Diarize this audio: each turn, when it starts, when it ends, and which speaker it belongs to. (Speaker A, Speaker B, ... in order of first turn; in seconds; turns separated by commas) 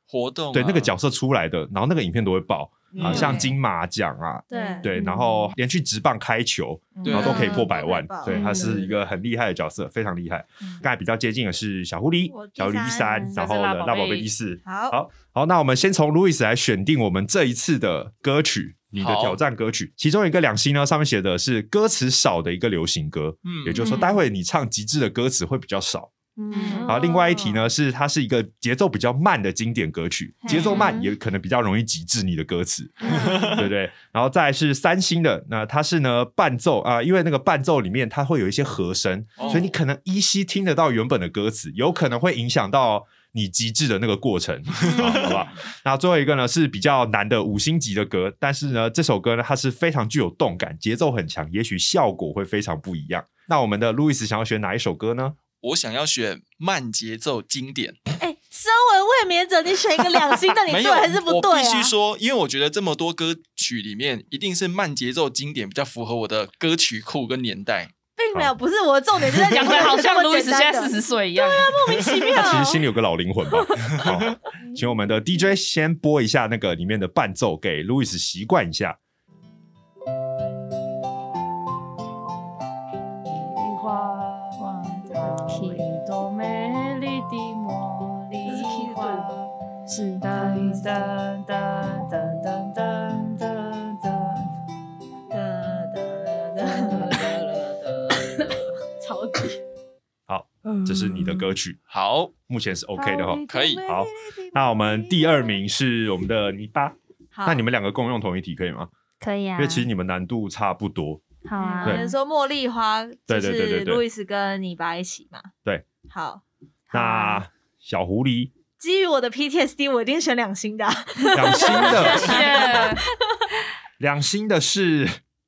Speaker A: 0.1-0.9, Speaker B: 0.5-26.1, Speaker C: 3.0-3.4, Speaker D: 3.0-3.4, Speaker E: 3.1-3.4, Speaker A: 3.1-3.4, Speaker D: 4.5-4.9, Speaker E: 4.5-5.5, Speaker D: 7.0-8.9, Speaker A: 7.1-7.5, Speaker E: 8.3-8.8, Speaker D: 12.3-13.3, Speaker C: 13.4-14.3, Speaker D: 14.7-15.0, Speaker A: 19.0-19.4, Speaker A: 23.4-23.9, Speaker E: 23.8-24.2, Speaker E: 26.4-27.0, Speaker D: 26.5-27.6, Speaker B: 26.9-55.4, Speaker D: 30.4-30.9, Speaker A: 30.5-30.8, Speaker E: 30.5-31.1, Speaker E: 33.0-33.5, Speaker D: 33.1-33.4, Speaker A: 33.1-33.7, Speaker A: 39.4-39.8, Speaker A: 44.8-45.4, Speaker A: 55.6-58.0, Speaker D: 58.2-61.9, Speaker A: 60.7-67.9, Speaker D: 68.2-72.8, Speaker A: 69.4-69.9, Speaker C: 69.5-71.8, Speaker A: 71.9-72.4, Speaker B: 72.3-79.0, Speaker A: 73.9-74.3, Speaker C: 83.3-89.5, Speaker E: 84.7-85.9, Speaker D: 88.4-89.4, Speaker E: 89.9-91.0, Speaker C: 90.2-94.5, Speaker D: 95.3-99.6, Speaker B: 100.3-101.8, Speaker E: 100.7-101.5, Speaker A: 101.9-102.3, Speaker B: 102.5-108.9, Speaker D: 103.0-105.5, Speaker A: 103.5-103.8, Speaker D: 107.3-107.7, Speaker E: 109.2-109.9, Speaker B: 109.6-111.3, Speaker E: 111.5-112.1, Speaker D: 111.6-115.5, Speaker B: 113.3-114.0, Speaker D: 116.1-116.4, Speaker E: 116.9-117.4, Speaker B: 116.9-118.5, Speaker D: 118.8-123.5, Speaker B: 121.3-122.4, Speaker E: 121.5-122.4, Speaker C: 121.9-123.0, Speaker B: 124.0-125.2